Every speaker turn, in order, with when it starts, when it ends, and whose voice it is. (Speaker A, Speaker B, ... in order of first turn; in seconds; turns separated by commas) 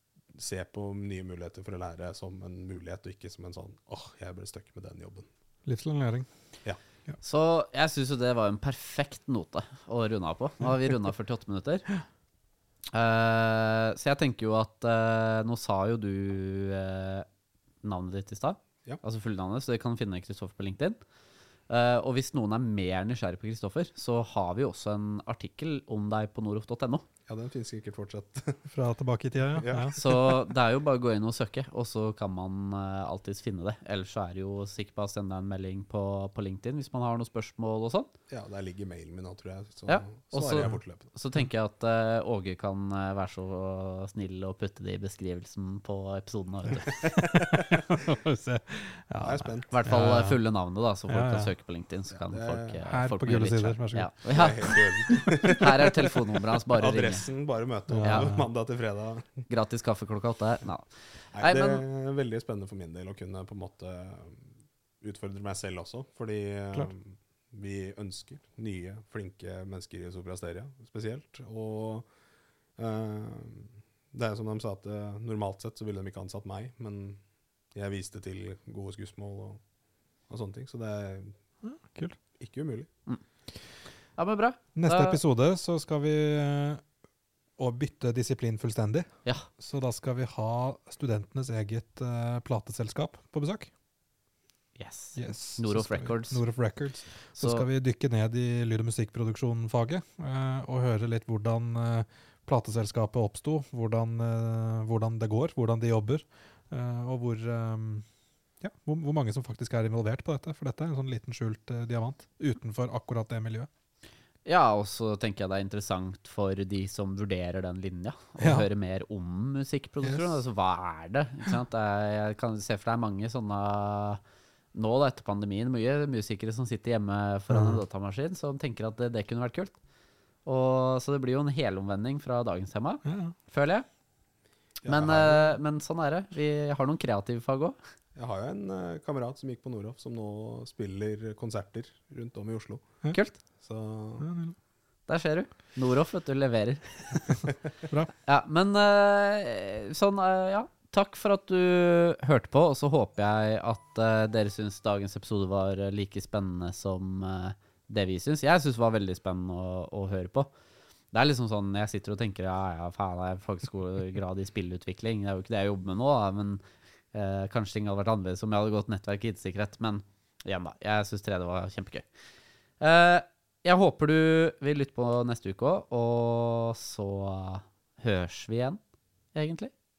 Speaker A: 0.3-5.3, Speaker B: 5.7-6.3, Speaker C: 7.2-11.9, Speaker C: 12.9-17.3, Speaker C: 17.8-21.0, Speaker C: 21.7-27.1, Speaker A: 27.3-28.7, Speaker B: 28.7-29.9, Speaker A: 29.6-30.4, Speaker C: 29.9-38.1, Speaker A: 38.3-41.1, Speaker C: 39.9-47.1, Speaker B: 47.0-50.4, Speaker A: 47.5-47.8, Speaker A: 49.2-49.7, Speaker C: 49.7-54.8, Speaker B: 51.1-51.5, Speaker A: 52.2-52.8, Speaker B: 52.9-54.2, Speaker A: 54.3-55.9, Speaker C: 55.6-57.3, Speaker A: 56.8-59.5, Speaker B: 57.9-58.5, Speaker C: 58.0-58.3, Speaker C: 59.5-61.8, Speaker A: 61.3-72.1, Speaker A: 72.8-77.2, Speaker A: 77.7-79.6, Speaker A: 80.3-81.3, Speaker B: 81.6-82.2, Speaker A: 82.4-82.9, Speaker C: 84.2-85.2, Speaker B: 84.8-86.8, Speaker B: 87.6-89.1, Speaker B: 89.6-93.7, Speaker C: 94.8-96.4, Speaker B: 95.2-108.1, Speaker C: 97.4-97.7, Speaker B: 108.6-113.7, Speaker C: 114.5-124.2, Speaker B: 118.4-118.7, Speaker B: 120.0-120.3, Speaker C: 124.7-129.8, Speaker B: 127.5-127.8, Speaker C: 130.4-133.9, Speaker B: 133.1-133.3, Speaker A: 134.8-135.6, Speaker C: 134.9-137.8, Speaker A: 138.2-142.9, Speaker C: 143.1-143.4, Speaker A: 143.6-144.3, Speaker B: 144.2-144.6, Speaker C: 145.1-147.4, Speaker C: 148.2-160.5, Speaker C: 161.1-172.1, Speaker C: 172.8-178.8, Speaker C: 179.3-179.7